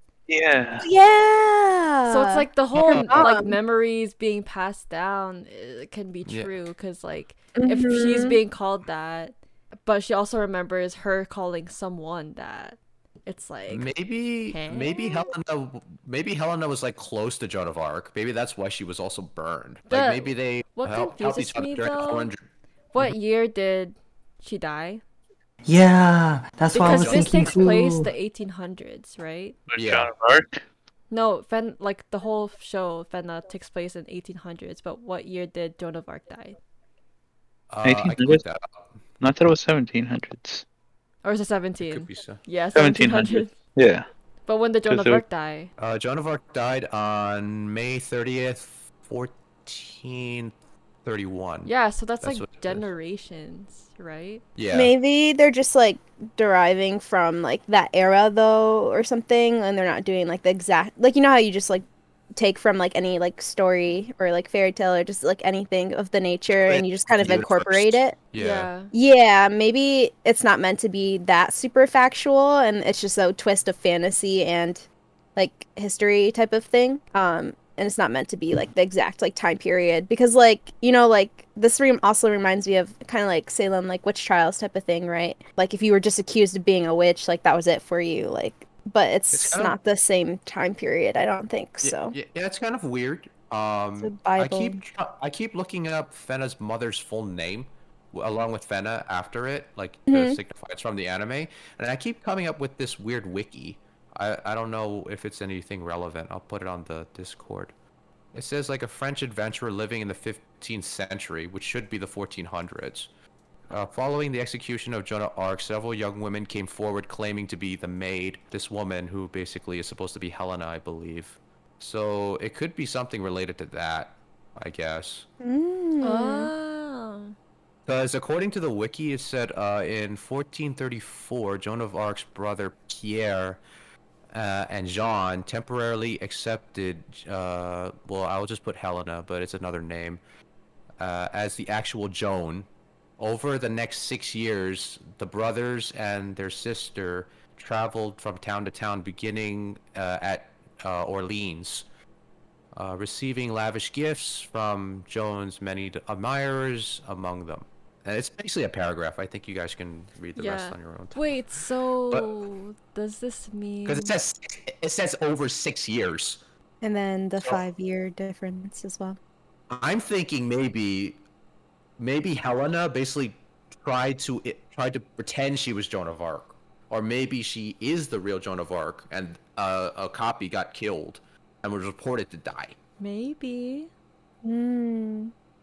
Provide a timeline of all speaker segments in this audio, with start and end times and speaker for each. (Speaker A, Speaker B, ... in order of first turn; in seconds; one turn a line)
Speaker A: 0.3-0.8
Speaker B: 0.8-3.5
Speaker C: 2.1-13.9
Speaker D: 2.7-3.2
Speaker D: 6.2-6.5
Speaker B: 7.5-8.4
Speaker D: 13.7-22.4
Speaker C: 14.5-14.9
Speaker C: 19.9-22.3
Speaker C: 22.9-25.0
Speaker E: 25.6-28.1
Speaker D: 26.7-27.8
Speaker C: 26.7-29.6
Speaker A: 29.7-30.6
Speaker D: 29.8-30.1
Speaker C: 31.1-36.6
Speaker D: 37.7-38.9
Speaker A: 37.8-38.4
Speaker A: 39.2-40.6
Speaker C: 41.2-43.5
Speaker D: 41.8-42.4
Speaker A: 42.7-44.0
Speaker C: 44.5-45.7
Speaker A: 44.8-45.2
Speaker D: 45.8-50.5
Speaker D: 51.0-52.9
Speaker C: 51.6-54.4
Speaker D: 54.5-54.9
Speaker B: 54.7-68.2
Speaker D: 66.7-68.7
Speaker C: 68.3-68.9
Speaker B: 68.9-74.8
Speaker B: 75.3-92.1
Speaker D: 89.3-89.8
Speaker D: 91.8-107.7
Speaker B: 94.0-94.8
Speaker B: 100.1-100.4
Speaker D: 108.3-113.1
Speaker D: 113.7-125.2
Speaker B: 125.4-126.5
Speaker C: 126.0-127.3
Speaker D: 127.8-133.6
Speaker D: 134.3-140.2
Speaker D: 141.0-142.7
Speaker D: 143.2-151.8
Speaker D: 152.7-161.2
Speaker C: 160.3-164.1
Speaker D: 163.8-166.4
Speaker B: 166.8-169.2
Speaker D: 169.7-171.2
Speaker D: 172.0-182.8
Speaker C: 183.0-183.9
Speaker B: 184.4-185.3